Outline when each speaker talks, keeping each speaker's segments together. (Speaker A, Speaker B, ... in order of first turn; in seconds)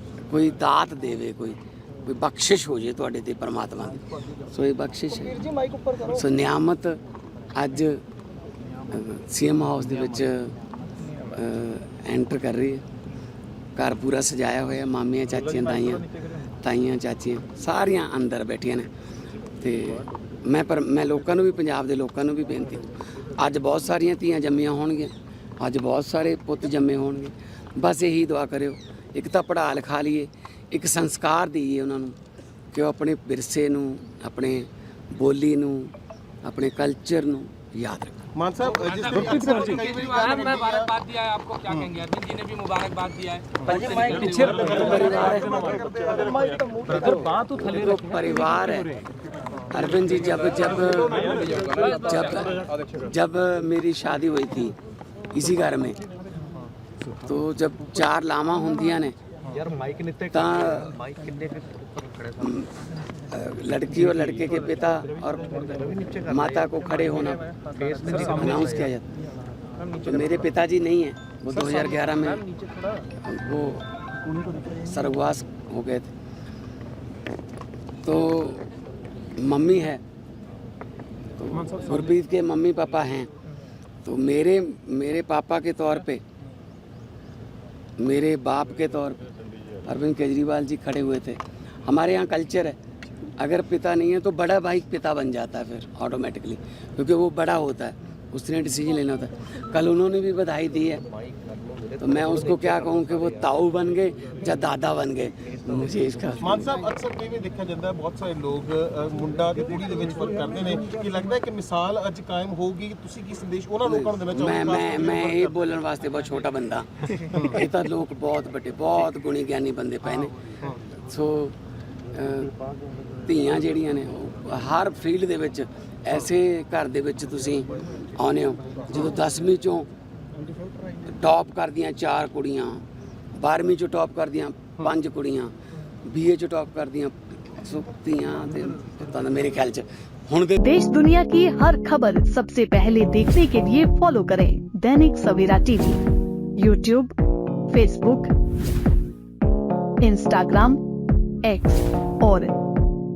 Speaker A: 0.3-7.0, 7.5-8.0, 8.9-10.5, 11.3-12.8, 13.8-16.1, 16.6-18.9, 19.6-32.1, 32.7-35.9, 36.4-38.2, 44.8-45.5, 47.5-48.9, 49.7-54.8, 55.3-56.0, 57.2-59.1, 60.3-61.0, 62.4-67.4, 68.0-69.1, 70.0-72.5, 73.2-73.8, 74.8-76.1, 78.0-78.7, 79.4-80.0, 81.4-83.3, 84.0-86.2, 88.0-89.2, 89.8-92.8, 93.4-101.0, 102.0-106.7, 114.3-120.5, 121.0-121.5, 122.1-122.5, 123.2-129.9, 131.0-132.8, 133.3-135.5, 136.0-140.6
Speaker B: 38.3-40.9, 44.9-46.1, 106.4-115.5
Speaker C: 39.1-40.0, 43.6-49.0, 81.5-82.0
Speaker D: 39.5-45.2, 51.5-52.2
Speaker E: 140.6-146.0, 146.6-147.1, 147.7-148.3, 150.0-150.8, 151.4-152.6